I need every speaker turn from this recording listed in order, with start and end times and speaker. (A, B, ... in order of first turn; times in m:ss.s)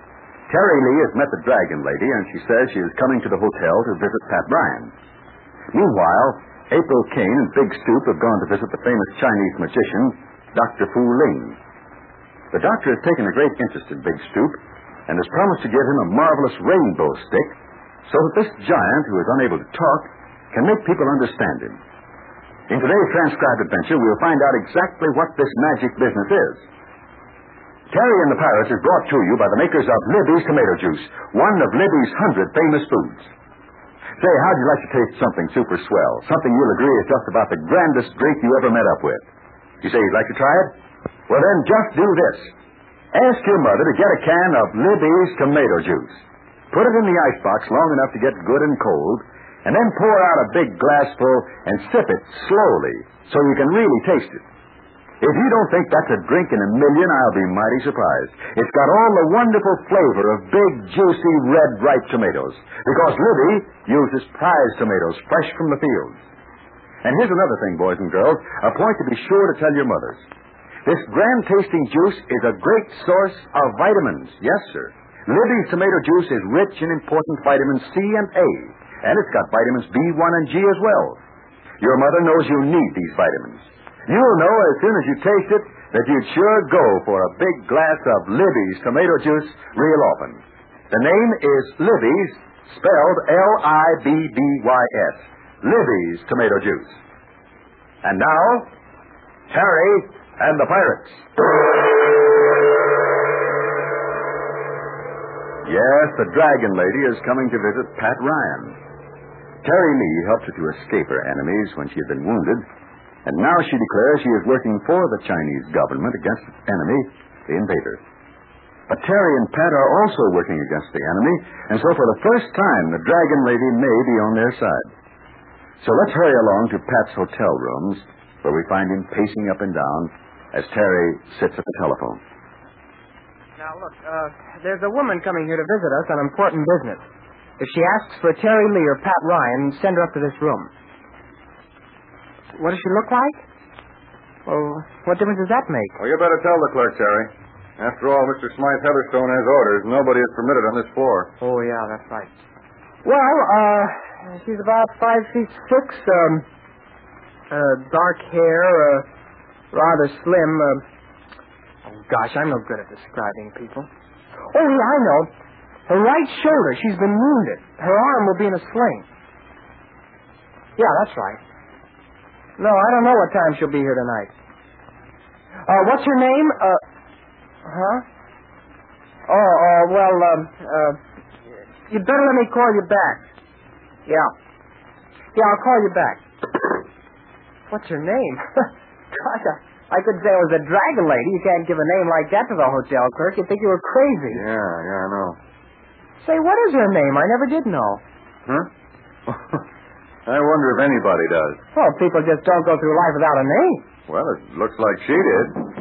0:00.5-0:04.9 A
0:05.7-0:11.6 A
0:12.5-0:17.5 A
0:18.1-0:21.8 A
0:22.7-0:26.6 A
0:27.9-0:33.3 A
0:34.2-0:39.2 A
0:39.8-0:40.7 A
0:41.3-0:42.5 A
0:43.1-0:54.4 A
0:55.2-1:06.2 A
1:07.0-1:10.2 A
1:10.8-1:21.2 A
1:21.8-1:37.0 A
1:38.0-1:38.7 A
1:39.5-1:41.2 A
1:45.6-1:48.8 A
1:49.6-1:52.6 A
1:53.2-1:58.0 A
1:58.9-2:04.9 A
2:05.8-2:12.2 A
2:13.6-2:17.0 B
2:17.6-2:20.7 B
2:22.5-2:23.4 B
2:24.4-2:26.0 B
2:26.0-2:31.3 C
2:31.4-2:32.3 B
2:33.0-2:36.4 B
2:37.5-2:39.0 B
2:39.7-2:40.8 B
2:41.8-2:43.9 B
2:44.5-2:45.3 B
2:45.9-2:49.0 B
2:50.8-2:51.4 B
2:52.6-2:54.3 B
2:55.6-2:56.8 B
2:57.6-2:58.0 B
2:59.3-3:01.0 B
3:01.9-3:03.2 B
3:04.0-3:04.3 B
3:05.3-3:06.7 B
3:07.7-3:14.4 B
3:14.3-3:15.4 C
3:16.2-3:18.0 B
3:19.3-3:19.6 C
3:20.2-3:21.6 C
3:21.7-3:23.8 B
3:24.1-3:25.7 C